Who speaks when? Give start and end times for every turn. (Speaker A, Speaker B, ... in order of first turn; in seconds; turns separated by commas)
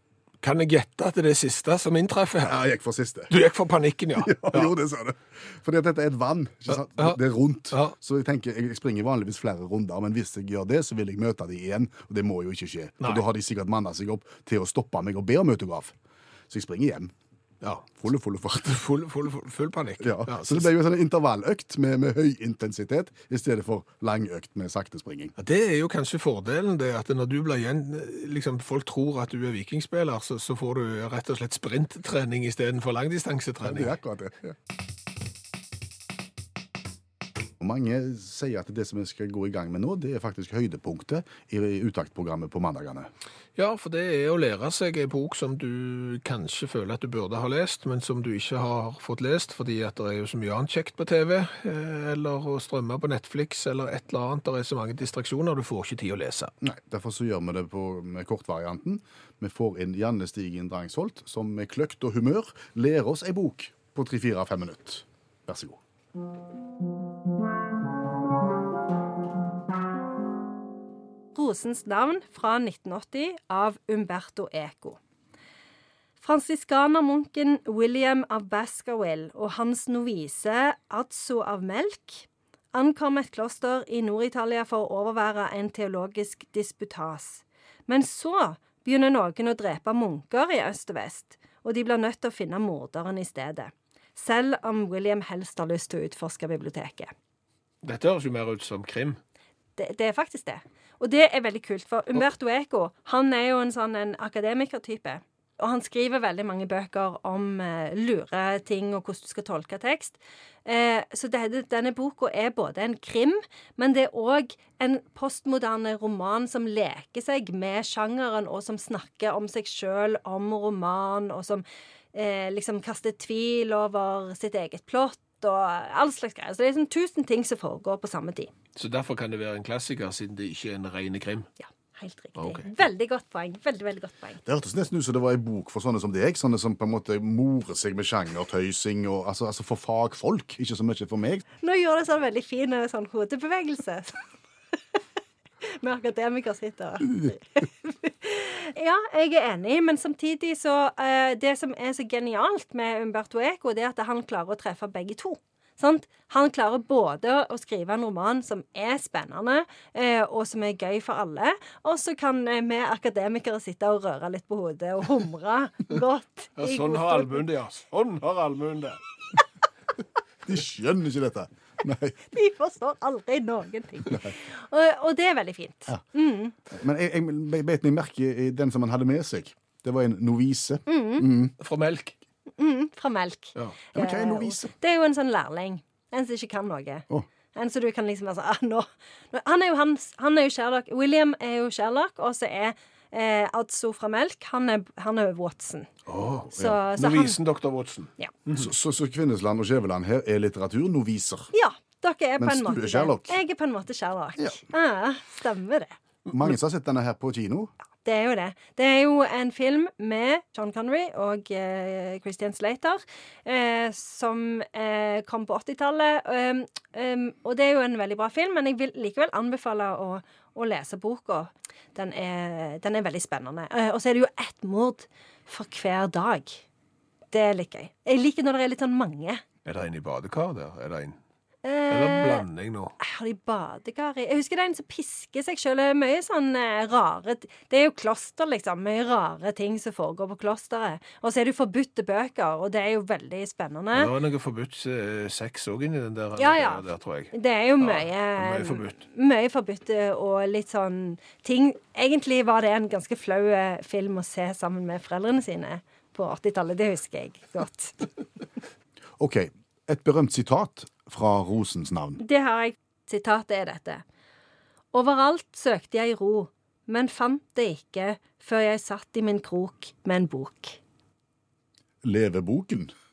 Speaker A: 0.4-2.6, Speaker B: 2.4-3.3, Speaker A: 3.3-4.7, Speaker B: 4.2-15.9, Speaker A: 6.7-7.2, Speaker B: 16.5-17.1, Speaker A: 17.6-17.9, Speaker B: 18.0-18.8, Speaker A: 18.6-20.7, Speaker B: 20.0-25.3, Speaker A: 25.4-34.0, Speaker B: 33.6-34.5, Speaker B: 37.6-43.1, Speaker A: 43.5-56.5, Speaker B: 56.6-65.8, Speaker C: 71.3-75.0, Speaker C: 76.2-97.1, Speaker A: 97.8-99.2, Speaker C: 99.8-128.5, Speaker A: 128.8-131.5, Speaker C: 131.6-134.4, Speaker A: 132.4-132.7, Speaker B: 134.4-141.4, Speaker C: 141.6-144.2, Speaker C: 145.6-167.4, Speaker A: 166.6-169.0, Speaker B: 170.4-172.2, Speaker C: 172.3-176.5, Speaker B: 176.7-181.5, Speaker C: 180.9-181.3, Speaker A: 181.6-182.1, Speaker C: 182.6-195.9, Speaker B: 183.9-184.7, Speaker A: 196.1-198.7, Speaker C: 196.5-197.4, Speaker B: 198.5-201.5, Speaker C: 201.5-205.9, Speaker B: 202.4-203.4, Speaker B: 206.3-207.7, Speaker C: 208.0-226.6, Speaker C: 227.3-229.4, Speaker A: 229.6-231.2, Speaker C: 231.6-232.4, Speaker A: 231.9-232.9, Speaker C: 233.0-244.1, Speaker A: 243.9-249.0, Speaker C: 246.4-258.1, Speaker B: 259.2-262.2, Speaker C: 262.2-264.0, Speaker C: 264.9-270.8, Speaker B: 272.0-272.9